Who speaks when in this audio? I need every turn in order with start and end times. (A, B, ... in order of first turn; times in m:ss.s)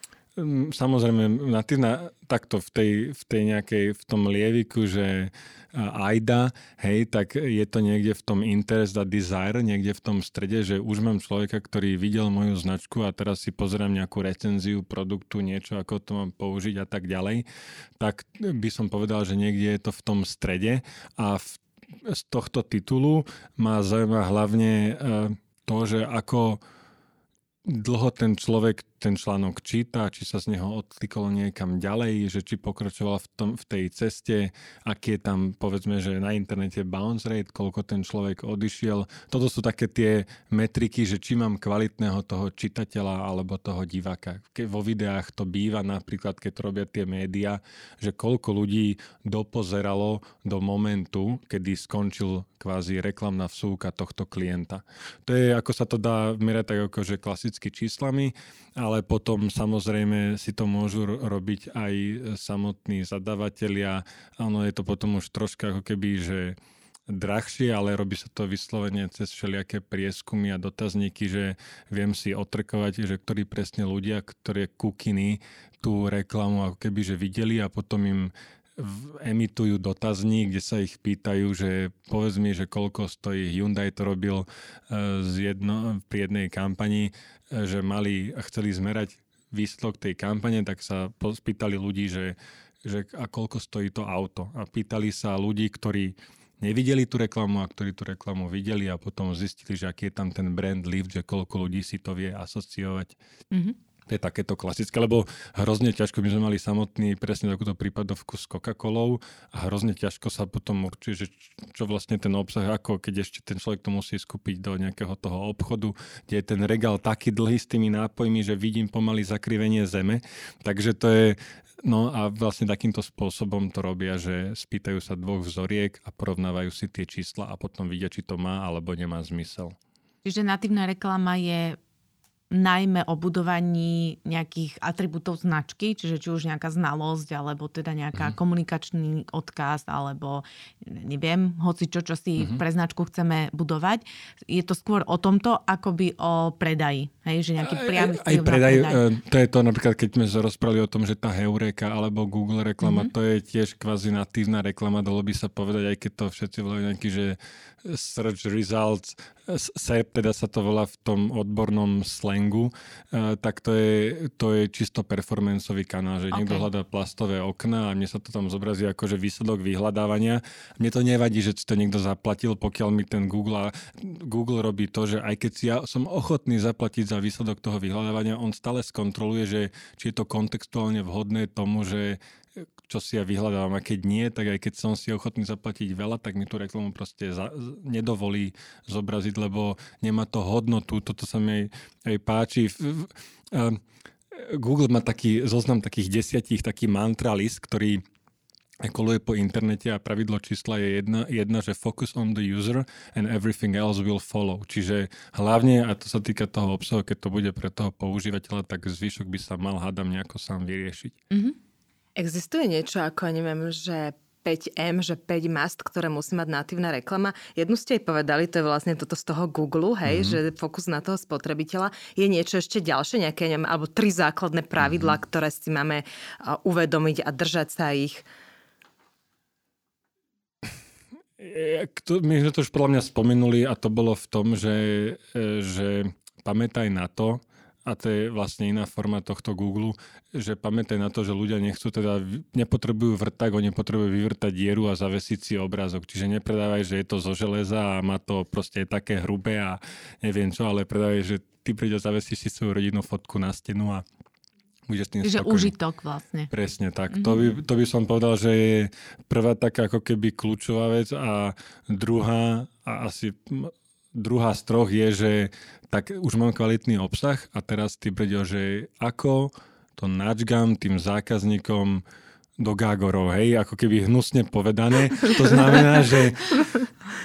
0:00.4-0:17.5 A
0:18.0-0:26.6 A
0:27.7-1:06.6 A
1:07.1-1:43.2 A
1:44.1-2:09.8 A
2:10.2-2:11.8 B
2:12.5-2:29.0 B
2:27.6-3:02.2 A
2:32.8-2:33.1 B
2:46.3-2:46.7 B
3:02.8-3:18.0 A
3:18.8-3:31.2 A
3:31.3-3:31.6 B
3:32.2-3:48.2 C
3:40.0-3:40.4 A
3:44.8-3:45.2 A
3:51.4-4:14.0 A
4:14.9-4:15.7 A
4:15.2-4:16.5 B
4:16.5-4:32.0 A
4:17.1-4:17.4 B
4:32.6-4:36.7 A